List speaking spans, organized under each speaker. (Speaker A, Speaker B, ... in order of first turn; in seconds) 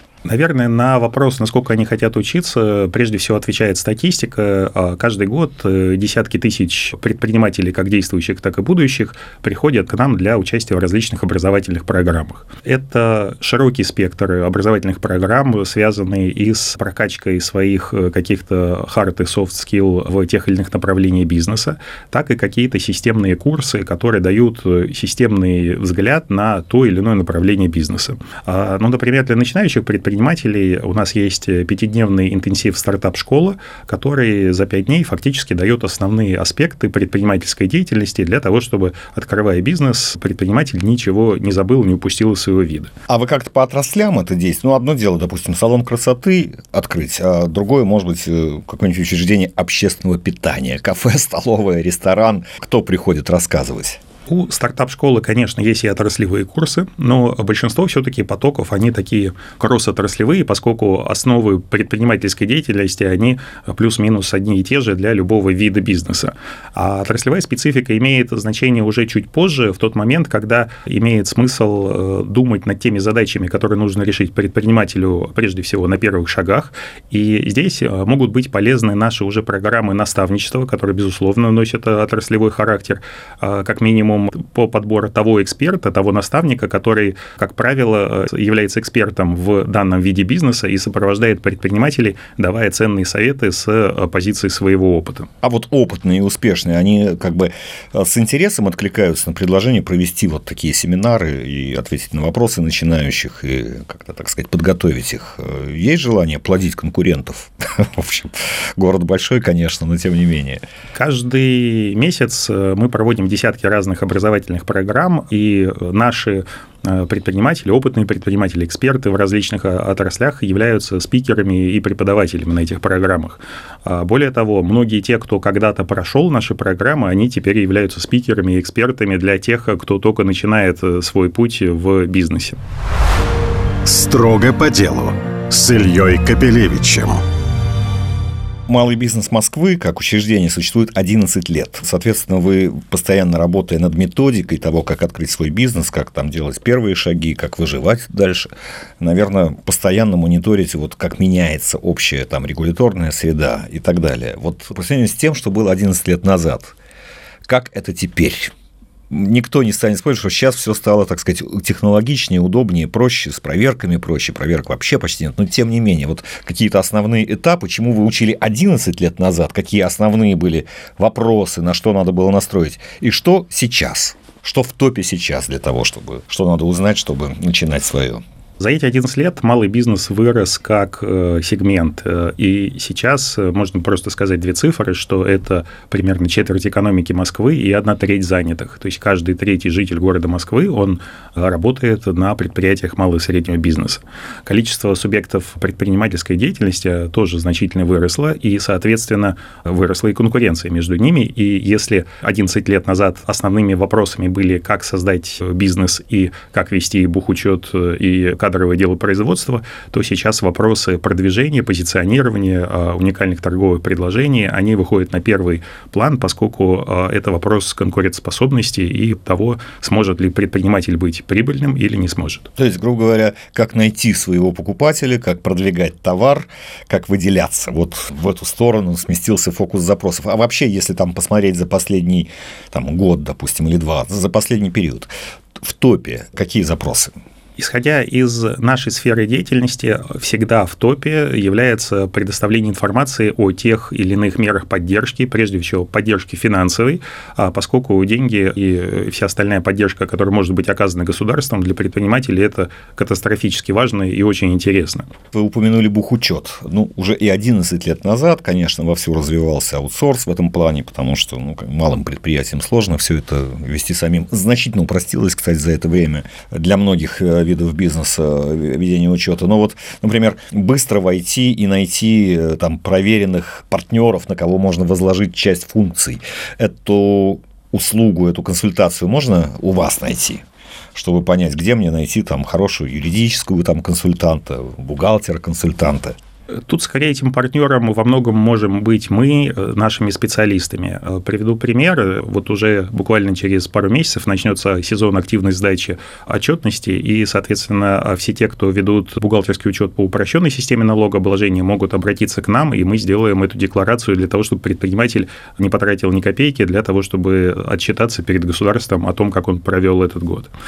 Speaker A: 0.2-42.9, 54.3-95.3, 110.9-132.6, 178.6-222.5, 237.6-255.1, 286.7-310.5
Speaker B: 43.1-54.0, 95.4-110.6, 138.7-156.8, 157.4-158.5, 159.1-178.2, 222.6-235.1, 235.6-237.1, 255.3-280.4, 280.9-286.1
Speaker C: 133.8-137.2